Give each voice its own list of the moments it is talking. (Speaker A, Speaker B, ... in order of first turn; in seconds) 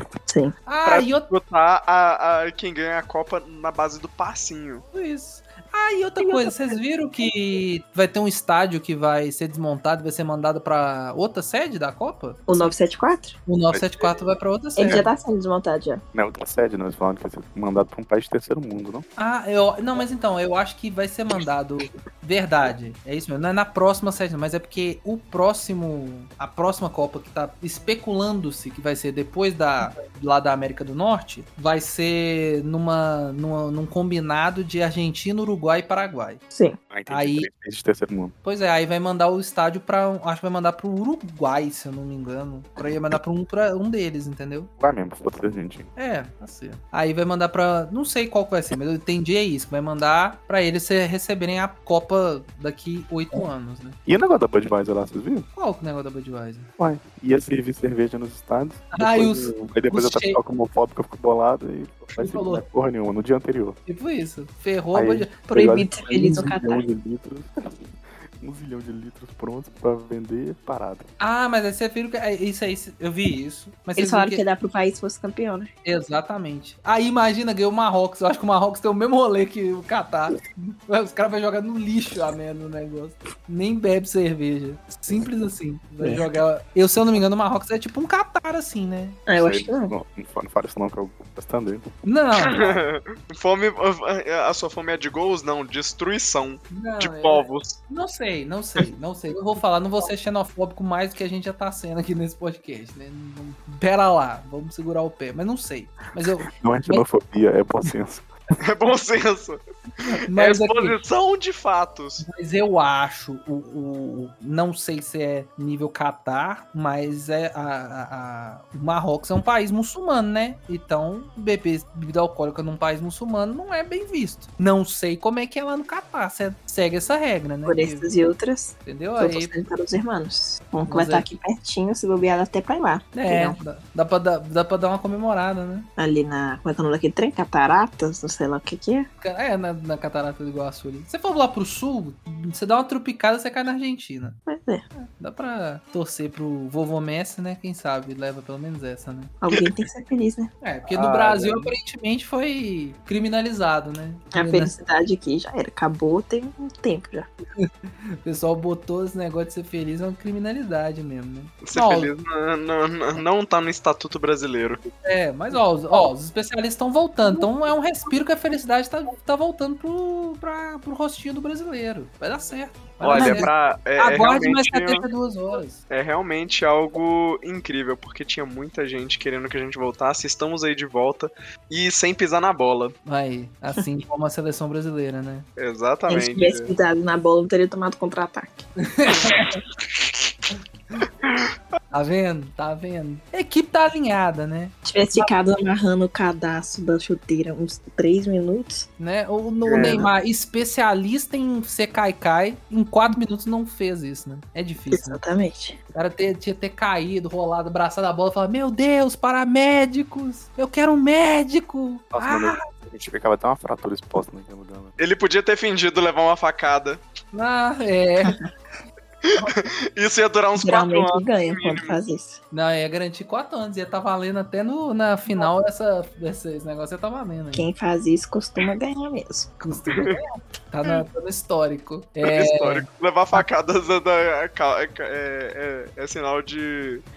Speaker A: 0.3-0.5, 6.2-6.7, 12.5-13.3, 14.8-16.0, 36.5-36.8, 65.5-66.8, 74.0-75.7, 86.0-86.3, 89.2-89.9, 127.6-133.6, 136.0-139.1, 144.5-145.1, 149.4-150.5, 154.3-157.3, 173.1-173.5, 186.1-188.7, 189.2-189.5, 194.8-198.9, 199.8-200.1, 204.9-205.8, 220.6-222.4, 227.5-229.5
Speaker B: 0.7-1.3, 4.9-12.5, 13.4-15.1, 19.2-36.4, 37.1-37.5, 38.4-44.7, 46.0-54.0, 55.5-56.7, 58.9-60.4, 62.1-62.6, 63.9-65.3, 71.2-74.4, 75.8-89.2, 92.0-92.6, 96.7-107.0, 110.0-111.0, 112.2-128.1, 128.8-129.5, 130.9-131.2, 133.1-135.9, 139.2-144.4, 145.2-149.3, 150.6-154.7, 157.6-162.1, 165.0-175.8, 183.1-185.4, 188.8-189.6, 191.9-194.7, 199.0-205.2, 205.9-212.6, 217.3-218.4, 222.5-227.7, 229.6-233.4
Speaker C: 0.8-4.8, 92.3-97.8, 108.5-112.2, 150.9-151.7, 161.7-164.8, 173.0-175.0, 175.9-182.9, 185.6-186.7, 191.2-191.8, 199.6-200.1, 215.0-217.0, 219.3-222.0, 229.9-230.2, 232.2-237.0
Speaker D: 13.7-14.1, 16.1-19.0, 36.9-38.3, 44.8-45.9, 54.0-55.5, 56.8-63.8, 64.9-71.1, 89.3-91.9, 106.5-108.3, 212.1-214.9